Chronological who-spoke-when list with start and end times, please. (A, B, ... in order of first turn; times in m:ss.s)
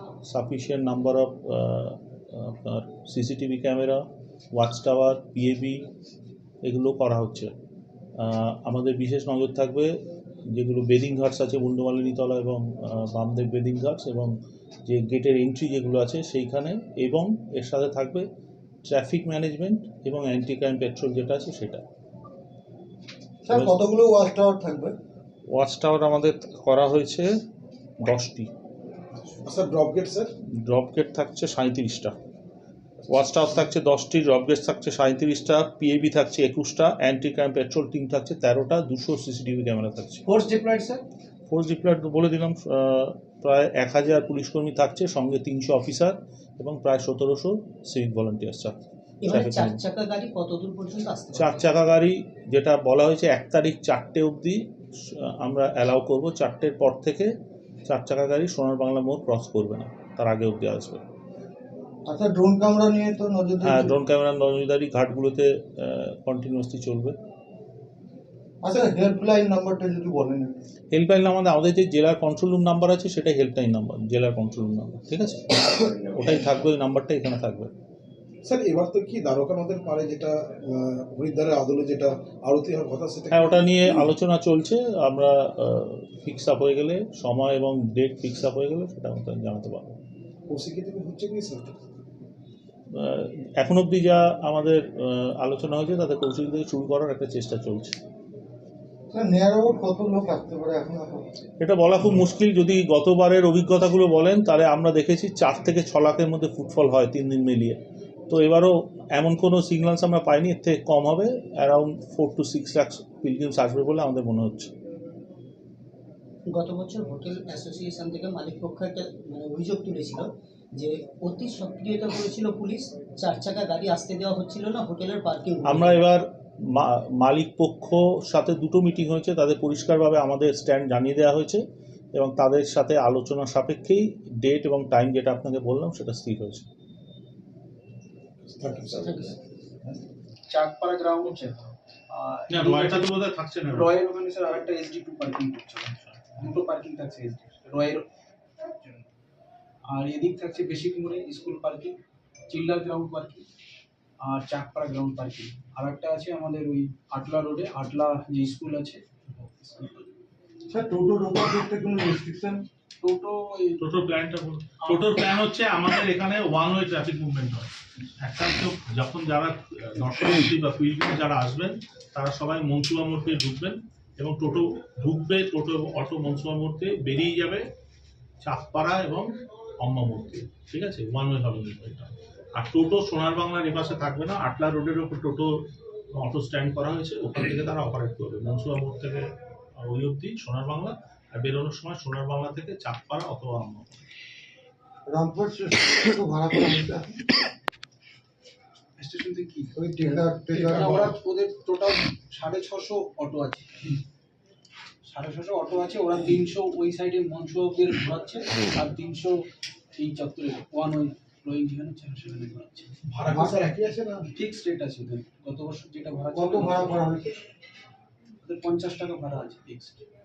0:00.2-0:05.8 A
0:06.6-0:07.5 A
0:08.2-0:09.9 A
0:10.5-0:14.3 A
0:14.8-0:18.3 A
0:18.8-0:21.8 A
0:23.4-0:24.9 B
0:25.5-0:27.3 A
0:28.0-0:28.5 A
0:29.4-0:30.3 C
0:30.6-0:32.1 A
0:33.1-0:40.2 A
0:40.3-0:41.0 D
0:41.5-0:48.8 A
0:49.2-0:51.7 D
0:49.3-0:49.8 A
0:51.4-0:57.3 A
0:57.8-1:01.0 A
1:02.0-1:04.0 B
1:03.6-1:07.2 A
1:08.6-1:10.6 B
1:10.9-1:15.6 A
1:15.9-1:16.4 C
1:16.2-1:17.7 A
1:18.4-1:24.1 C
1:23.3-1:30.0 A
1:30.5-1:31.8 C
1:32.9-1:38.0 A
1:39.1-1:41.2 B
1:41.6-1:54.7 A
1:56.5-2:06.0 D
2:05.6-2:11.6 A
2:12.1-2:16.6 A
2:18.4-2:20.0 C
2:20.5-2:28.1 E
2:22.5-2:23.9 A
2:28.6-2:29.0 E
2:29.9-2:32.0 E
2:32.5-2:33.4 E
2:34.2-2:40.1 E
2:40.7-2:42.6 B
2:43.0-2:43.8 E
2:43.8-2:57.6 A
2:44.8-2:45.1 E
2:58.4-3:05.5 A
3:06.1-3:13.9 A
3:15.1-3:17.2 B
3:19.0-3:24.0 E
3:19.8-3:21.1 B
3:25.0-3:37.0 E
3:33.2-3:33.6 B
3:33.2-3:34.3 C
3:36.3-3:37.4 B
3:38.4-3:40.0 E